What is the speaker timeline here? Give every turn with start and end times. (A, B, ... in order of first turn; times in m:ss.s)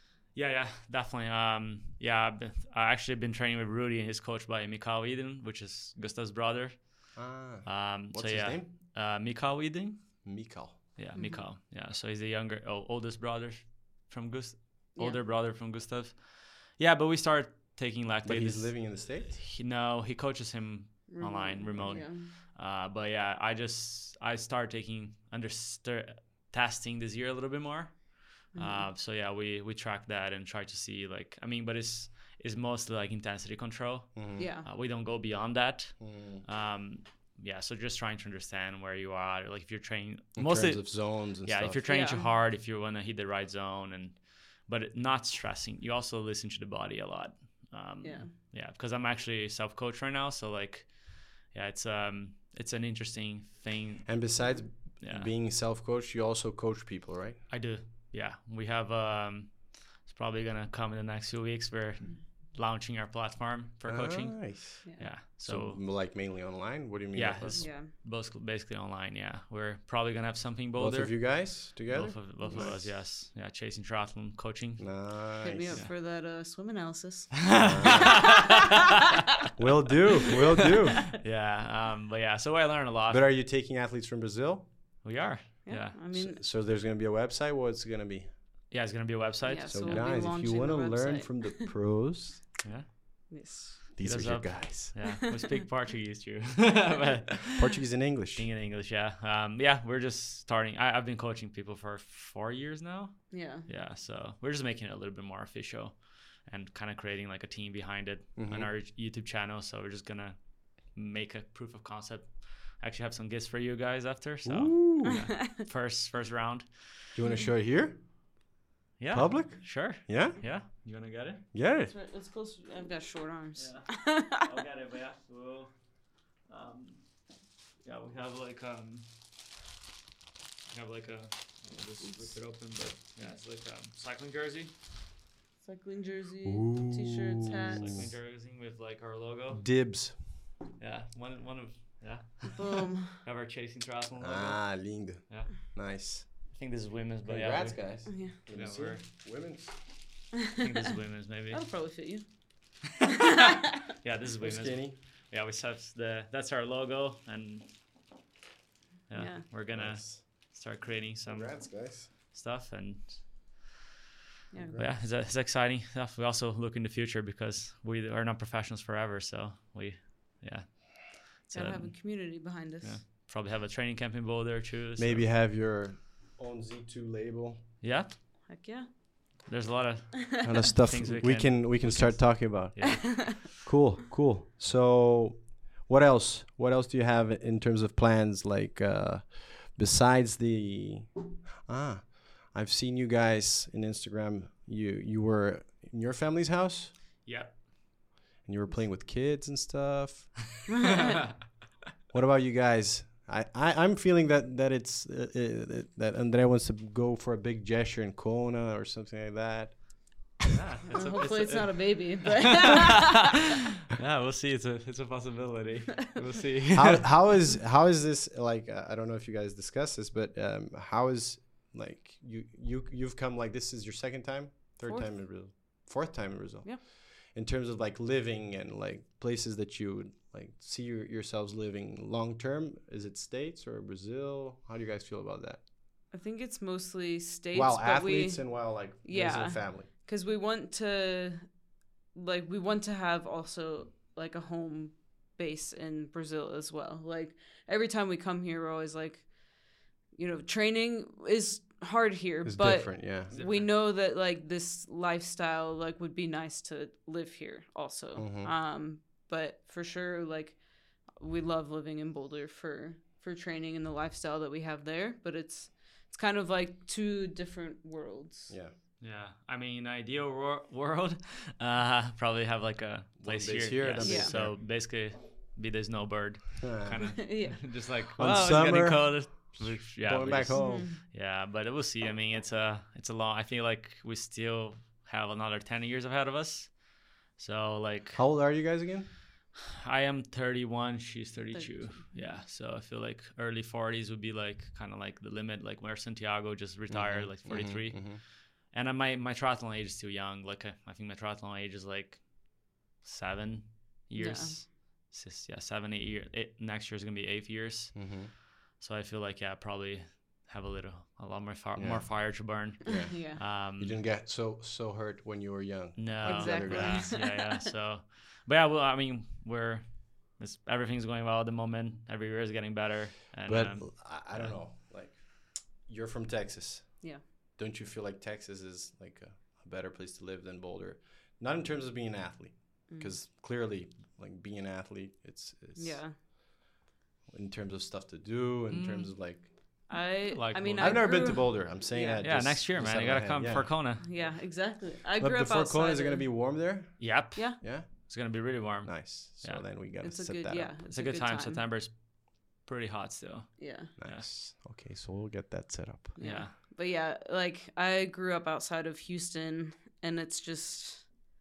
0:00.3-0:10.2 A
0:07.1-0:08.7 B
0:10.2-0:10.8 B
0:11.0-0:54.3 A
0:11.1-0:11.4 C
0:18.2-0:19.4 B
0:21.1-0:22.3 C
0:28.5-0:28.9 C
0:34.2-0:34.4 B
0:34.4-0:34.6 C
0:36.0-0:36.4 B
0:40.4-0:41.8 B
0:41.9-0:42.3 C
0:48.0-0:48.3 C
0:54.0-0:57.4 B
0:55.0-0:55.3 A
0:57.5-1:05.8 A
1:03.8-1:04.8 B
1:05.4-1:07.7 B
1:07.1-1:15.0 A
1:07.5-1:07.9 C
1:10.8-1:12.9 B
1:12.4-1:12.7 C
1:14.8-1:15.8 B
1:15.4-1:18.5 C
1:17.4-1:19.0 A
1:17.5-1:18.5 B
1:19.6-1:21.2 B
1:21.0-1:23.2 A
1:23.1-1:24.7 B
1:25.0-1:26.0 A
1:25.6-1:26.4 C
1:26.1-1:28.3 B
1:28.7-1:30.0 A
1:29.4-1:31.7 C
1:29.6-1:32.5 B
1:32.6-1:32.9 A
1:33.3-1:33.8 C
1:34.0-1:34.9 B
1:34.0-1:37.8 A
1:35.0-1:35.5 C
1:37.5-1:38.5 B
1:38.4-1:57.1 A
1:43.3-1:43.6 C
1:48.4-1:48.7 B
1:54.4-1:55.2 B
1:55.1-1:55.6 C
1:57.1-1:58.0 B
1:59.0-2:01.4 A
1:59.1-2:00.4 B
2:01.5-2:01.9 B
2:01.8-2:04.4 C
2:03.6-2:05.7 A
2:06.5-2:07.0 A
2:07.8-2:09.1 A
2:10.7-2:14.7 A
2:15.6-2:18.0 C
2:16.4-2:18.1 B
2:17.7-2:19.6 A
2:19.5-2:20.2 B
2:20.8-2:25.7 A
2:22.6-2:23.2 C
2:24.2-2:26.3 B
2:26.5-2:29.0 A
2:27.2-2:29.7 B
2:28.0-2:28.4 C
2:30.6-2:31.6 A
2:31.5-2:32.3 C
2:33.1-2:33.6 C
2:33.3-2:37.7 A
2:34.4-2:35.0 B
2:39.1-2:43.6 A
2:39.1-2:39.4 C
2:39.7-2:40.3 B
2:41.2-2:42.1 B
2:44.5-2:44.8 C
2:44.6-2:45.0 B
2:44.7-2:55.2 A
2:51.5-2:53.0 C
2:55.0-2:57.6 B
2:57.8-2:58.1 A
2:58.5-2:58.9 C
2:59.4-3:03.2 A
3:00.4-3:11.1 B
3:02.8-3:03.4 C
3:11.7-3:16.9 B
3:17.2-3:17.6 A
3:18.4-3:20.5 B
3:20.8-3:21.4 A
3:22.1-3:29.8 B
3:30.5-3:37.4 A
3:30.9-3:33.3 C
3:36.7-3:55.6 B
3:44.8-3:45.1 C
3:56.1-4:01.4 C
3:57.5-3:59.9 B
4:02.1-4:09.3 C
4:10.1-4:20.6 C
4:12.4-4:13.3 B
4:13.3-4:13.7 A
4:18.2-4:18.5 B
4:21.2-4:28.5 C
4:28.5-4:28.7 B
4:29.0-4:48.2 A
4:33.2-4:34.6 B
4:34.0-4:34.3 C
4:36.6-4:37.1 B
4:37.0-4:37.6 C
4:38.2-4:40.9 B
4:40.5-4:41.0 C
4:48.1-4:49.1 B
4:49.7-5:08.1 A
4:51.5-4:52.3 C
4:56.9-4:58.2 B
5:04.2-5:04.6 C
5:07.9-5:08.3 B
5:08.8-5:14.0 A
5:11.8-5:17.1 B
5:12.9-5:13.4 C
5:16.0-5:24.6 A
5:16.2-5:17.6 C
5:23.4-5:36.0 B
5:32.9-5:33.2 C
5:35.8-5:36.1 C
5:37.3-5:39.5 B
5:38.7-5:41.2 A
5:39.9-5:42.2 C
5:40.8-5:43.7 B
5:42.2-5:44.1 A
5:44.0-5:46.2 C
5:45.2-5:48.0 B
5:47.0-5:49.6 A
5:48.8-5:50.7 B
5:50.0-5:51.6 C
5:50.9-5:54.3 A
5:53.6-5:53.9 C
5:54.0-5:56.2 B
5:56.2-6:01.1 C
5:56.2-5:56.5 A